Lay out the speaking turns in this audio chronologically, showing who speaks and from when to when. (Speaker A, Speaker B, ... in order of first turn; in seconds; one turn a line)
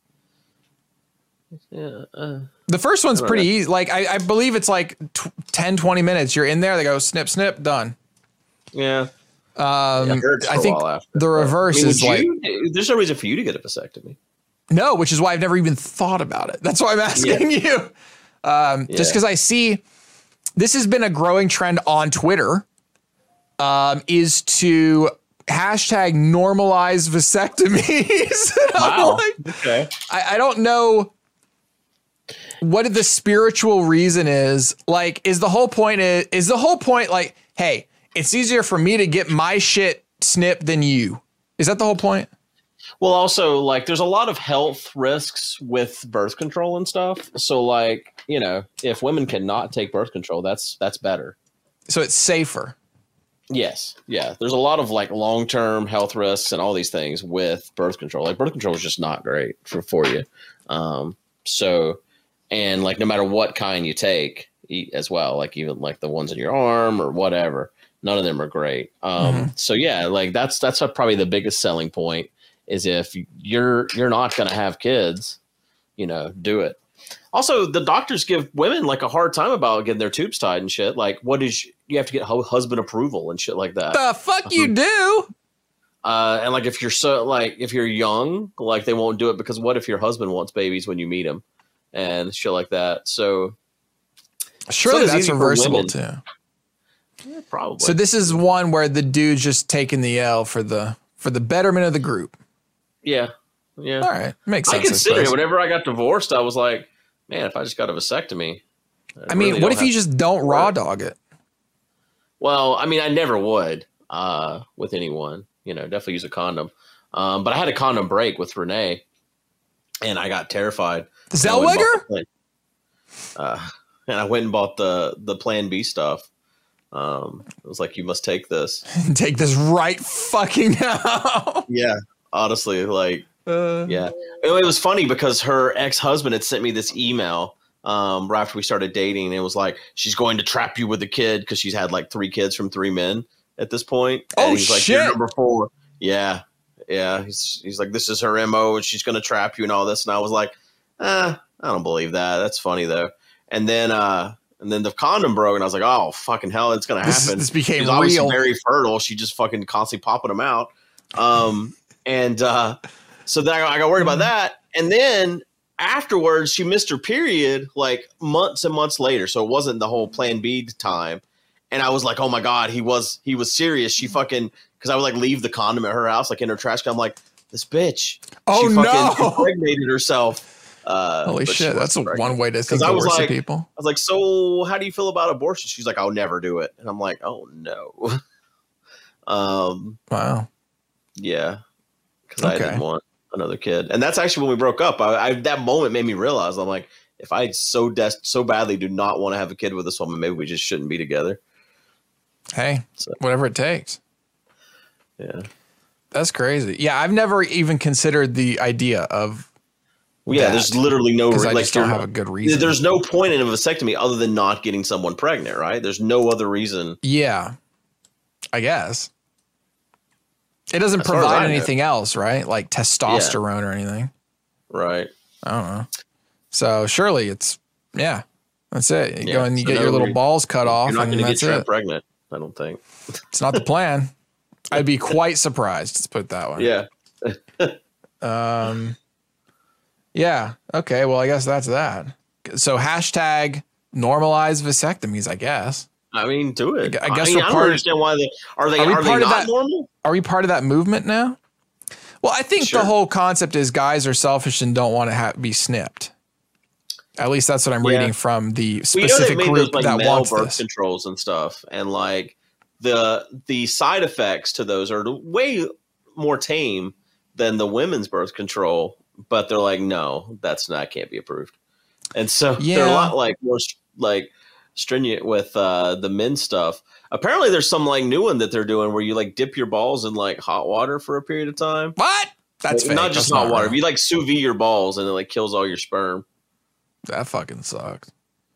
Speaker A: 1.7-2.5
Speaker B: 2.7-7.9
Speaker A: 3.1-3.5
Speaker A: 8.7-9.1
Speaker B: 9.6-12.3
Speaker A: 10.0-14.2
Speaker B: 14.7-19.8
Speaker A: 17.1-17.4
Speaker A: 18.9-19.2
Speaker B: 20.6-22.6
Speaker B: 23.6-29.4
Speaker A: 28.8-29.9
Speaker B: 30.0-31.1
Speaker B: 32.6-42.3
Speaker A: 43.0-51.4
Speaker B: 51.9-52.8
Speaker A: 53.5-75.4
Speaker B: 69.2-69.5
Speaker A: 76.0-76.8
Speaker A: 77.3-84.7
Speaker B: 83.9-85.3
Speaker A: 86.0-93.5
Speaker B: 94.7-96.2
Speaker A: 94.8-95.9
Speaker A: 97.2-98.4
Speaker B: 97.8-102.3
Speaker A: 103.0-104.1
Speaker B: 104.0-105.3
Speaker A: 104.7-108.6
Speaker A: 109.2-109.9
Speaker B: 109.3-111.2
Speaker A: 110.5-110.7
Speaker A: 112.4-119.0
Speaker A: 120.0-122.3
Speaker B: 121.3-122.0
Speaker A: 123.3-126.3
Speaker A: 126.9-128.8
Speaker B: 128.9-131.7
Speaker A: 131.7-133.3
Speaker B: 133.4-134.0
Speaker A: 133.8-188.2
Speaker B: 144.3-145.2
Speaker B: 157.0-158.4
Speaker B: 178.4-179.5
Speaker B: 181.2-183.7
Speaker A: 189.2-190.0
Speaker B: 190.1-190.5
Speaker A: 191.2-191.6
Speaker A: 192.3-201.4
Speaker B: 192.4-192.8
Speaker B: 202.5-204.0
Speaker A: 205.2-205.5
Speaker B: 206.1-209.5
Speaker A: 210.2-217.0
Speaker B: 210.3-210.8
Speaker B: 211.3-212.8
Speaker B: 217.0-217.5
Speaker B: 218.5-219.1
Speaker B: 220.7-224.1
Speaker A: 221.0-221.7
Speaker A: 223.1-223.4
Speaker A: 224.7-225.1
Speaker B: 225.4-225.9
Speaker B: 226.5-231.7
Speaker A: 229.2-232.8
Speaker B: 233.3-234.1
Speaker B: 234.7-236.7
Speaker A: 236.6-237.8
Speaker B: 238.2-239.0
Speaker B: 240.1-245.9
Speaker A: 246.1-249.9
Speaker B: 246.8-247.8
Speaker B: 248.8-249.5
Speaker B: 250.0-251.4
Speaker B: 252.2-256.1
Speaker A: 252.6-252.9
Speaker B: 257.2-260.6
Speaker A: 257.8-258.1
Speaker A: 258.9-271.5
Speaker A: 272.1-281.9
Speaker B: 272.6-273.1
Speaker B: 281.9-283.8
Speaker A: 282.7-286.2
Speaker B: 287.1-288.1